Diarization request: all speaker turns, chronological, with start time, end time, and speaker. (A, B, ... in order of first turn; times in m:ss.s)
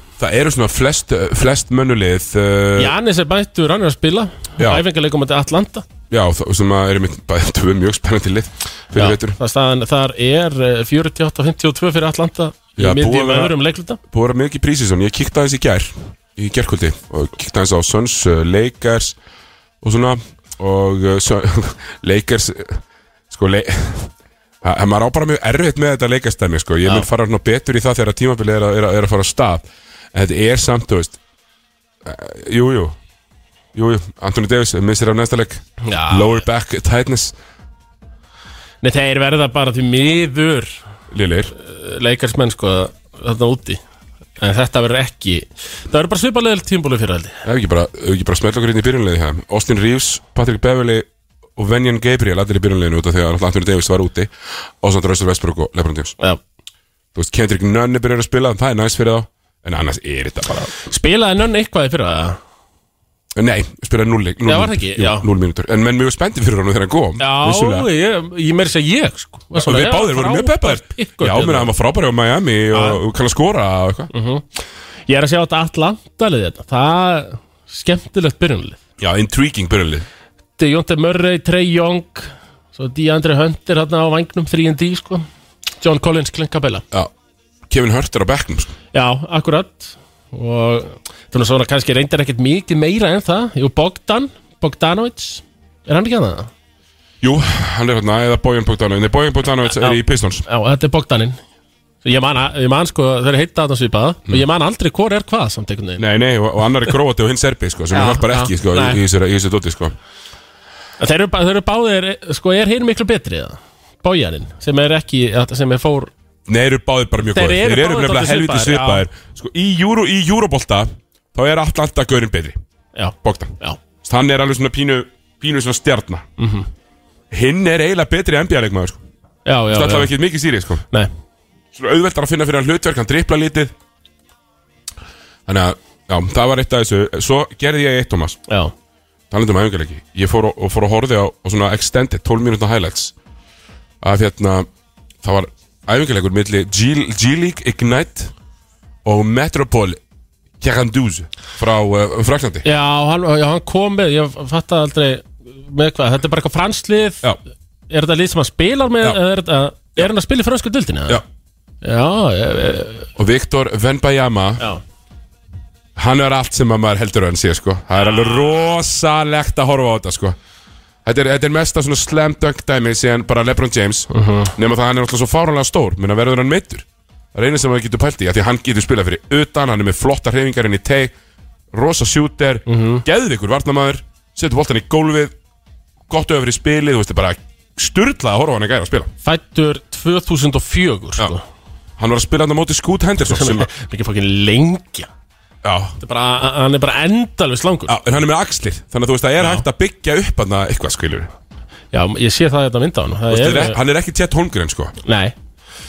0:00.2-0:02.9 A
0:02.8-0:05.9 B
0:04.6-0:04.8 A
0:06.1-0:09.4 A
0:08.9-0:14.0 B
0:12.8-0:13.5 A
0:14.1-0:19.2 A
0:19.8-0:31.2 A
0:32.0-0:33.0 A
0:33.7-0:37.3 A
0:35.8-0:36.4 B
0:38.8-0:40.8 B
0:41.1-0:41.5 A
0:41.6-0:43.8 B
0:44.4-0:47.4 B
0:47.4-0:56.2 A
0:57.1-1:00.7 A
1:00.7-1:02.4 B
1:03.4-1:07.9 A
1:04.4-1:05.2 B
1:07.2-1:11.7 B
1:09.6-1:14.1 A
1:12.7-1:13.0 B
1:14.1-1:14.4 B
1:15.1-1:18.8 B
1:19.0-1:20.0 A
1:20.6-1:25.2 B
1:25.8-1:26.8 B
1:27.7-1:28.7 A
1:28.9-1:36.5 B
1:37.2-1:40.4 A
1:39.7-1:41.4 B
1:42.0-1:46.0 B
1:46.0-1:50.0 A
1:47.9-1:49.0 B
1:51.0-1:56.1 B
1:56.5-2:02.6 A
1:57.3-1:59.0 B
2:02.9-2:03.8 B
2:03.2-2:06.2 A
2:06.4-2:06.7 B
2:07.3-2:09.0 A
2:09.4-2:10.1 B
2:09.7-2:10.8 A
2:11.7-2:13.7 A
2:15.5-2:18.4 A
2:18.5-2:18.7 B
2:19.3-2:23.1 A
2:24.0-2:24.7 A
2:25.2-2:28.3 A
2:29.0-2:30.0 A
2:30.6-2:32.6 A
2:32.6-2:37.2 B
2:37.9-2:41.2 B
2:41.8-2:43.1 B
2:43.2-2:44.6 A
2:46.0-2:50.4 A
2:48.0-2:48.6 B
2:51.0-3:01.1 A
2:54.1-2:54.5 B
3:01.7-3:05.3 A
3:02.7-3:03.0 B
3:06.1-3:09.1 A
3:09.2-3:11.4 B
3:12.0-3:13.7 A
3:13.3-3:15.1 B
3:15.6-3:16.0 A
3:16.0-3:17.9 B
3:17.9-3:21.3 A
3:19.4-3:19.6 B
3:21.9-3:23.8 B
3:23.3-3:25.0 A
3:25.0-3:25.3 B